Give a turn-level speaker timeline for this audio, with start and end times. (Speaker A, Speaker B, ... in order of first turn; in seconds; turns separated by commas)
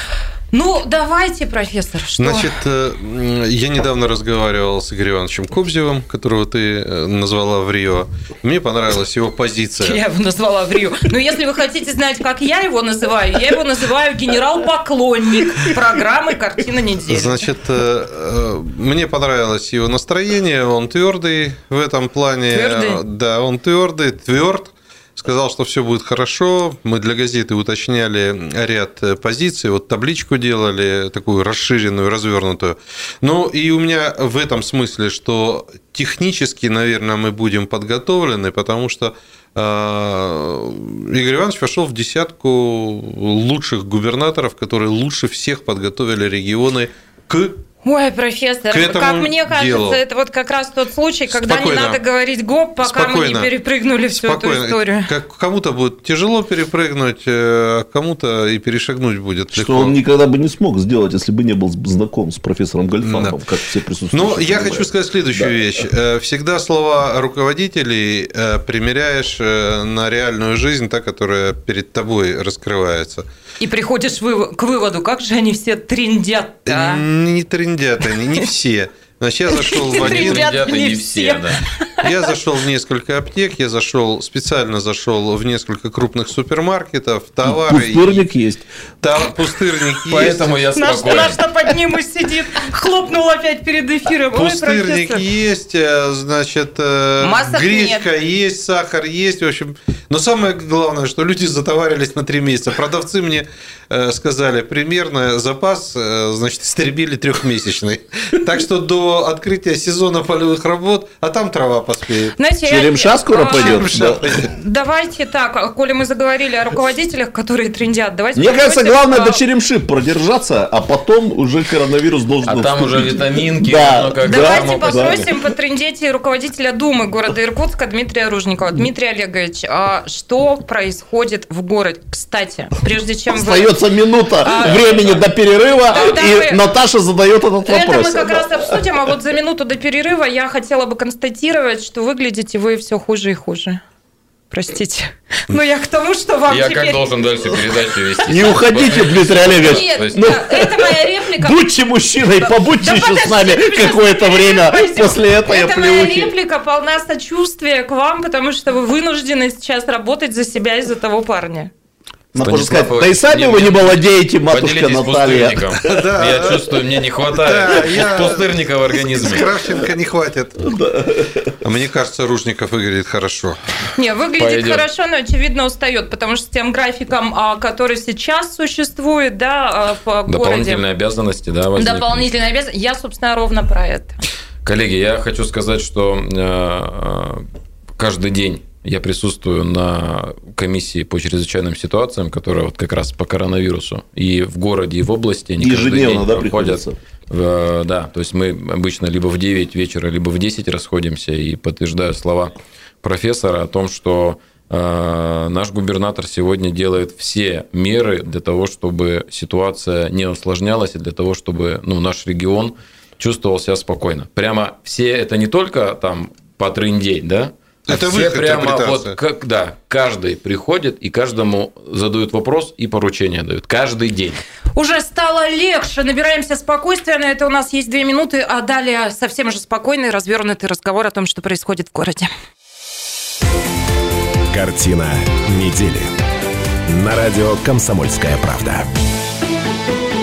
Speaker A: 0.5-2.5, Speaker B: 2.2-10.0, Speaker A: 9.8-17.4, Speaker B: 17.1-47.6, Speaker A: 22.5-23.0, Speaker A: 47.8-55.1, Speaker B: 48.7-50.0, Speaker B: 51.3-52.0, Speaker B: 52.8-53.5, Speaker B: 54.1-60.0, Speaker C: 59.5-65.5, Speaker B: 63.0-63.4, Speaker B: 64.1-73.2, Speaker A: 73.6-77.0, Speaker B: 76.7-80.5, Speaker A: 79.5-82.0, Speaker D: 80.0-81.6, Speaker B: 82.0-88.2, Speaker C: 87.4-88.7, Speaker B: 89.0-90.5, Speaker D: 90.1-91.4, Speaker A: 90.8-95.2, Speaker B: 94.3-112.3, Speaker A: 97.2-98.0, Speaker A: 112.4-119.4, Speaker C: 112.7-114.3, Speaker B: 113.5-114.5, Speaker C: 118.3-125.3, Speaker D: 122.4-125.2, Speaker A: 124.2-133.7, Speaker C: 133.3-138.8, Speaker A: 134.4-135.2, Speaker A: 135.9-136.6, Speaker A: 137.6-143.8, Speaker A: 144.5-147.0, Speaker D: 146.5-150.4, Speaker C: 148.3-156.3, Speaker A: 149.5-151.7, Speaker A: 152.4-161.7, Speaker C: 162.3-166.0, Speaker D: 162.4-169.4, Speaker B: 165.8-166.7, Speaker B: 167.3-168.5, Speaker B: 169.0-170.7, Speaker C: 170.6-171.6, Speaker B: 171.6-173.6, Speaker A: 173.9-180.8, Speaker D: 174.4-174.8, Speaker D: 180.3-182.2, Speaker A: 181.8-184.2, Speaker D: 184.6-187.4, Speaker D: 188.0-224.4, Speaker C: 195.6-196.9, Speaker B: 217.9-219.2, Speaker A: 224.8-232.3, Speaker E: 234.5-236.1, Speaker E: 236.9-238.9